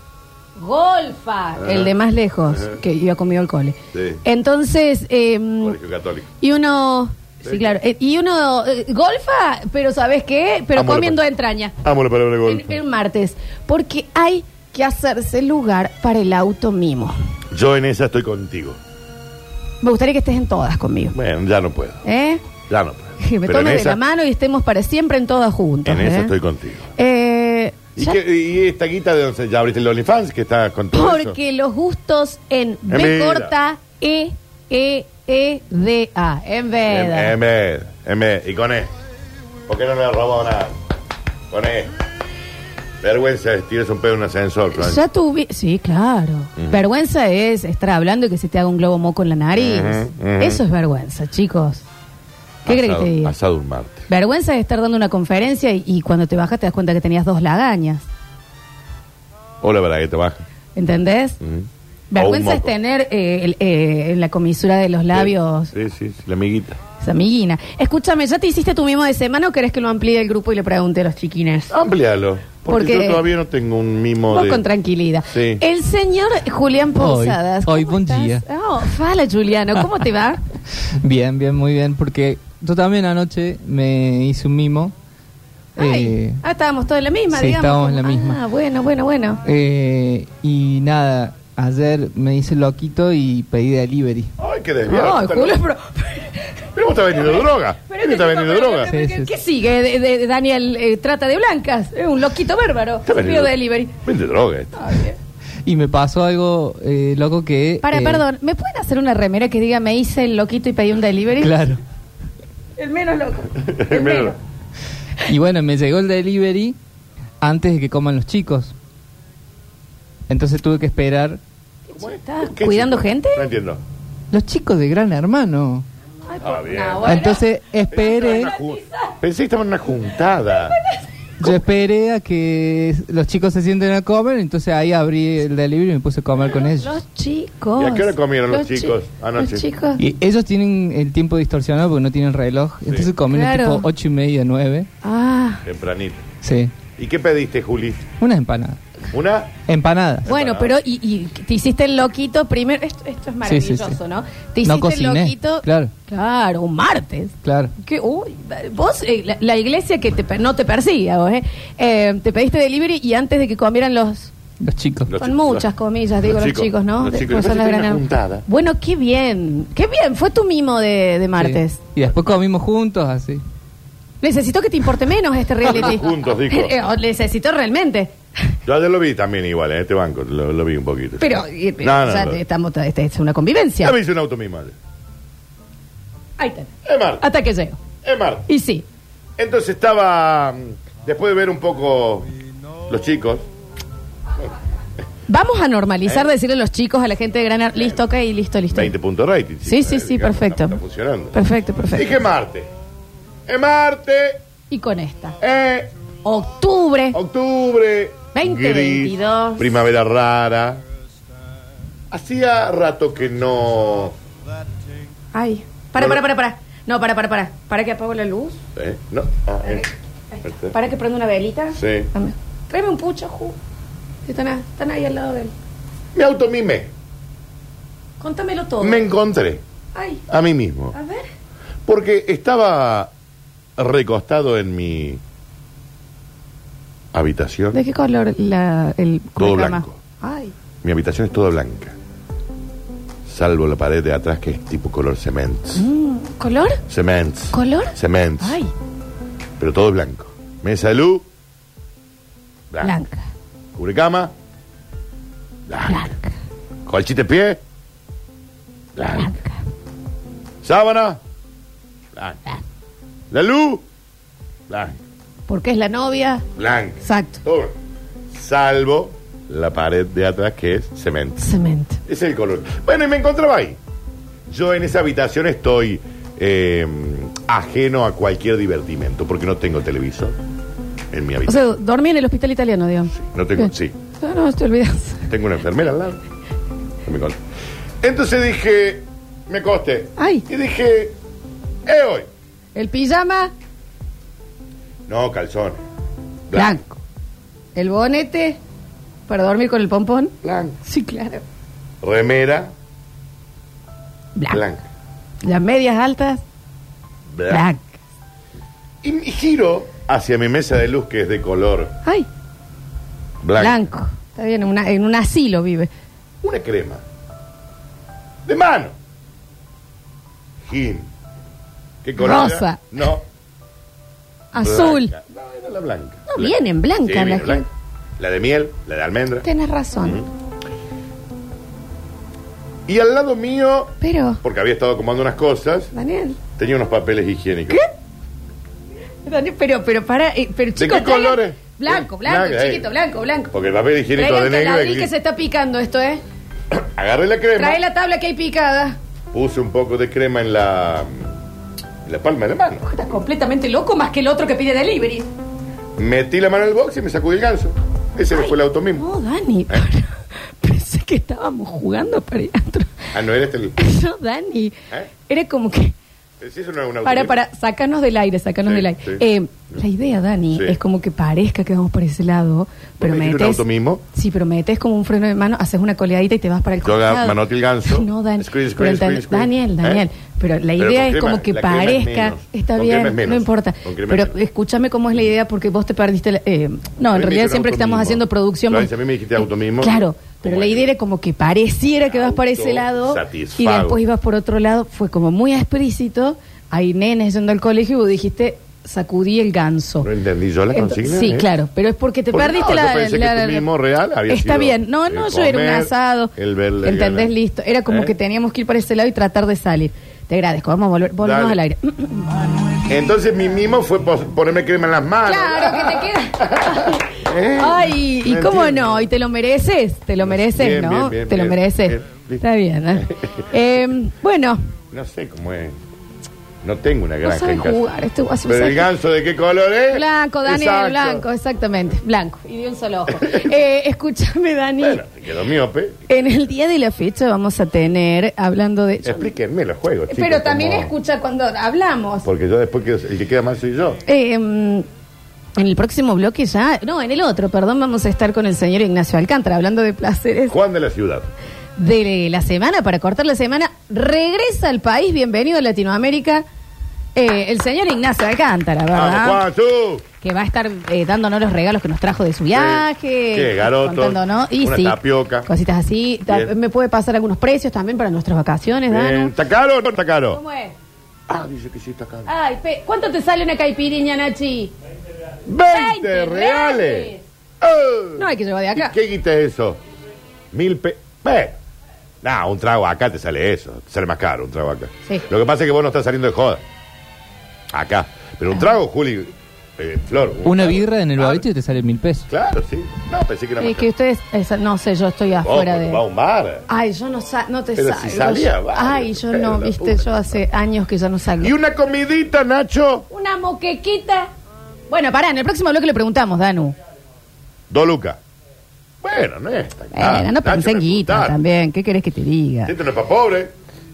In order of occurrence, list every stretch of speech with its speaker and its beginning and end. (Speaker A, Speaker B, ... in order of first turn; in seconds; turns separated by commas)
Speaker A: 0.6-5.8, Speaker B: 1.6-1.9, Speaker B: 2.5-2.8, Speaker B: 3.9-4.2, Speaker B: 5.6-6.3, Speaker A: 6.4-11.8, Speaker B: 7.4-7.7, Speaker B: 10.7-11.2, Speaker B: 11.8-12.8, Speaker A: 12.4-17.1, Speaker B: 17.5-18.8, Speaker A: 19.8-21.1, Speaker B: 21.1-22.0, Speaker A: 22.0-22.4, Speaker B: 22.7-24.0, Speaker A: 23.2-26.3, Speaker B: 25.8-26.9, Speaker A: 26.9-28.2, Speaker B: 27.9-31.4, Speaker A: 30.9-37.4, Speaker B: 32.9-33.5, Speaker B: 36.9-38.9, Speaker B: 39.7-40.7, Speaker B: 41.5-41.9, Speaker B: 43.0-45.0, Speaker A: 44.7-51.8, Speaker B: 46.5-46.8, Speaker B: 49.5-50.6, Speaker B: 52.6-54.0, Speaker A: 52.6-53.3, Speaker A: 54.1-58.0, Speaker B: 59.6-60.4, Speaker A: 60.7-61.4, Speaker B: 61.4-62.7, Speaker A: 62.1-65.7, Speaker B: 65.1-66.8, Speaker A: 67.0-71.7, Speaker B: 71.7-74.6, Speaker A: 72.7-73.2, Speaker A: 74.3-80.4, Speaker B: 75.3-75.6, Speaker C: 77.0-78.4, Speaker C: 81.0-84.9, Speaker A: 85.8-89.4, Speaker C: 85.8-86.4, Speaker C: 87.3-88.4, Speaker C: 89.4-94.3, Speaker B: 94.4-95.6, Speaker A: 94.9-103.9, Speaker B: 96.7-98.9, Speaker C: 98.8-99.3, Speaker B: 103.0-104.8, Speaker A: 104.7-105.2, Speaker C: 105.6-108.2, Speaker A: 107.8-111.8, Speaker C: 111.4-111.8, Speaker A: 112.8-114.4, Speaker B: 113.6-114.3, Speaker C: 115.2-116.8, Speaker C: 117.4-118.7, Speaker C: 120.3-121.4, Speaker A: 121.9-123.5, Speaker B: 121.9-123.8, Speaker C: 124.3-125.8, Speaker A: 126.3-129.1, Speaker B: 126.4-127.3, Speaker C: 127.0-128.6, Speaker B: 127.9-130.8, Speaker A: 130.6-131.0, Speaker C: 131.4-136.9, Speaker A: 136.4-140.0, Speaker B: 137.8-139.7, Speaker C: 140.0-144.9, Speaker A: 143.3-143.8, Speaker A: 145.0-145.6, Speaker B: 145.6-146.2, Speaker C: 146.4-146.7, Speaker B: 147.0-148.1, Speaker C: 148.2-148.8, Speaker B: 149.1-149.6, Speaker C: 149.7-150.3, Speaker B: 150.2-150.7, Speaker A: 150.2-164.3, Speaker C: 153.4-154.0, Speaker C: 154.6-155.9, Speaker C: 157.4-157.7, Speaker C: 164.6-165.1, Speaker B: 165.1-165.7, Speaker A: 165.2-171.8, Speaker B: 166.2-168.4, Speaker C: 171.4-173.4, Speaker A: 174.2-178.2, Speaker B: 175.6-176.8, Speaker B: 178.7-182.4, Speaker A: 181.2-183.9, Speaker B: 183.8-184.7, Speaker A: 186.4-187.8, Speaker B: 186.8-187.2, Speaker B: 188.0-188.4, Speaker A: 188.5-188.8, Speaker B: 189.4-192.3, Speaker B: 192.9-193.4, Speaker A: 195.3-198.9, Speaker B: 196.0-196.3, Speaker B: 198.7-201.3, Speaker A: 199.7-200.8, Speaker A: 201.3-202.2, Speaker B: 201.9-202.7, Speaker B: 203.5-204.4, Speaker A: 204.7-205.4, Speaker B: 205.4-205.9, Speaker A: 206.2-207.2, Speaker B: 207.1-210.8, Speaker A: 208.3-209.7, Speaker B: 212.1-214.1, Speaker A: 215.3-218.6, Speaker B: 215.9-216.2, Speaker B: 218.7-219.9, Speaker A: 219.6-223.6, Speaker B: 220.4-220.8, Speaker B: 221.8-222.1, Speaker A: 224.2-225.5, Speaker B: 226.1-226.9, Speaker A: 228.2-229.1, Speaker B: 228.8-229.6, Speaker A: 229.9-230.2, Speaker B: 230.3-230.9, Speaker A: 230.9-231.3, Speaker B: 231.9-233.1, Speaker B: 233.8-235.2, Speaker B: 237.1-237.8, Speaker A: 237.7-240.5, Speaker B: 239.4-240.0, Speaker B: 240.8-241.9, Speaker B: 243.2-245.8, Speaker A: 245.7-246.8, Speaker B: 246.9-248.6, Speaker A: 247.5-248.7, Speaker B: 249.6-251.2, Speaker B: 252.7-252.9, Speaker A: 252.8-253.3, Speaker B: 253.8-254.3, Speaker B: 255.7-256.1, Speaker A: 255.8-256.4, Speaker B: 256.9-257.6, Speaker B: 258.9-259.3, Speaker A: 259.1-259.6, Speaker B: 260.6-261.2, Speaker B: 262.1-262.4, Speaker B: 263.3-263.8, Speaker B: 264.7-265.0, Speaker A: 265.5-266.4, Speaker B: 266.6-267.7, Speaker A: 267.0-267.4, Speaker B: 268.3-271.5, Speaker A: 271.4-272.0, Speaker B: 272.1-273.8, Speaker B: 274.5-280.4, Speaker B: 281.1-281.6, Speaker A: 281.4-285.3, Speaker B: 283.1-284.0, Speaker B: 285.3-286.2, Speaker B: 287.0-287.4, Speaker B: 288.0-291.1, Speaker A: 290.2-290.4, Speaker B: 291.8-292.3, Speaker A: 292.7-293.5, Speaker B: 295.1-295.8, Speaker B: 296.5-296.8, Speaker A: 296.5-297.0, Speaker A: 297.7-298.6, Speaker A: 299.3-301.4, Speaker B: 300.4-300.8, Speaker B: 302.0-302.7, Speaker A: 304.4-304.6, Speaker B: 304.5-304.9, Speaker A: 305.4-306.4, Speaker B: 307.3-307.7, Speaker A: 307.5-307.9, Speaker B: 309.0-311.9, Speaker B: 313.4-313.9, Speaker A: 313.6-315.9, Speaker B: 316.4-317.0, Speaker B: 318.4-318.9, Speaker B: 320.7-321.1, Speaker B: 322.0-323.2, Speaker A: 322.2-323.1, Speaker A: 324.5-325.1, Speaker B: 324.6-327.7, Speaker A: 326.3-327.7, Speaker B: 328.2-329.4, Speaker A: 329.4-330.2, Speaker B: 330.0-330.3, Speaker B: 332.9-335.9, Speaker A: 334.0-334.4, Speaker A: 335.9-336.4, Speaker B: 336.6-337.8, Speaker A: 339.2-343.5, Speaker B: 340.8-342.9, Speaker B: 343.5-345.1, Speaker A: 344.1-346.2, Speaker B: 346.7-347.8, Speaker A: 347.6-349.0, Speaker B: 349.3-351.3, Speaker B: 352.0-352.8, Speaker A: 352.8-355.3, Speaker B: 356.0-359.1, Speaker A: 358.3-363.1, Speaker B: 363.1-363.8, Speaker A: 363.8-365.9, Speaker B: 366.4-367.4, Speaker A: 367.0-400.1, Speaker B: 368.6-369.2, Speaker B: 370.5-370.8, Speaker B: 373.0-374.0, Speaker B: 376.8-380.1, Speaker B: 380.8-384.4, Speaker B: 387.1-390.9, Speaker B: 392.0-394.0, Speaker B: 400.0-401.5, Speaker A: 400.7-403.7, Speaker B: 402.3-407.3, Speaker A: 404.3-412.3, Speaker B: 407.9-408.1, Speaker B: 411.2-411.6, Speaker B: 412.9-419.1, Speaker A: 415.2-424.6, Speaker B: 420.2-422.4, Speaker B: 422.9-423.3, Speaker B: 424.9-425.8, Speaker B: 426.6-427.8, Speaker A: 427.2-428.9, Speaker B: 428.4-431.2, Speaker A: 429.9-435.0, Speaker B: 433.1-433.5, Speaker B: 434.8-436.0, Speaker A: 436.1-439.3, Speaker B: 439.0-440.9, Speaker A: 440.1-442.3, Speaker B: 442.2-444.0, Speaker A: 444.0-444.9, Speaker A: 445.6-450.6, Speaker B: 450.5-451.3, Speaker A: 451.8-456.4, Speaker A: 457.1-459.4, Speaker B: 458.9-460.0, Speaker A: 460.2-469.4, Speaker B: 462.5-465.5, Speaker B: 466.3-466.5, Speaker B: 468.9-470.4, Speaker A: 470.3-470.7, Speaker B: 471.3-472.3, Speaker A: 472.2-474.7, Speaker B: 475.5-479.8, Speaker A: 475.6-477.2, Speaker A: 478.2-478.9, Speaker B: 480.5-481.6, Speaker B: 482.2-486.6, Speaker B: 487.7-491.4, Speaker C: 490.4-492.3, Speaker B: 492.3-493.9, Speaker A: 493.6-496.0, Speaker B: 495.4-496.6, Speaker A: 496.7-501.5, Speaker B: 497.8-500.4, Speaker B: 501.4-503.1, Speaker A: 503.1-504.3, Speaker A: 504.9-506.7, Speaker B: 507.7-508.2, Speaker B: 509.0-511.4, Speaker A: 509.9-512.7, Speaker B: 512.6-513.5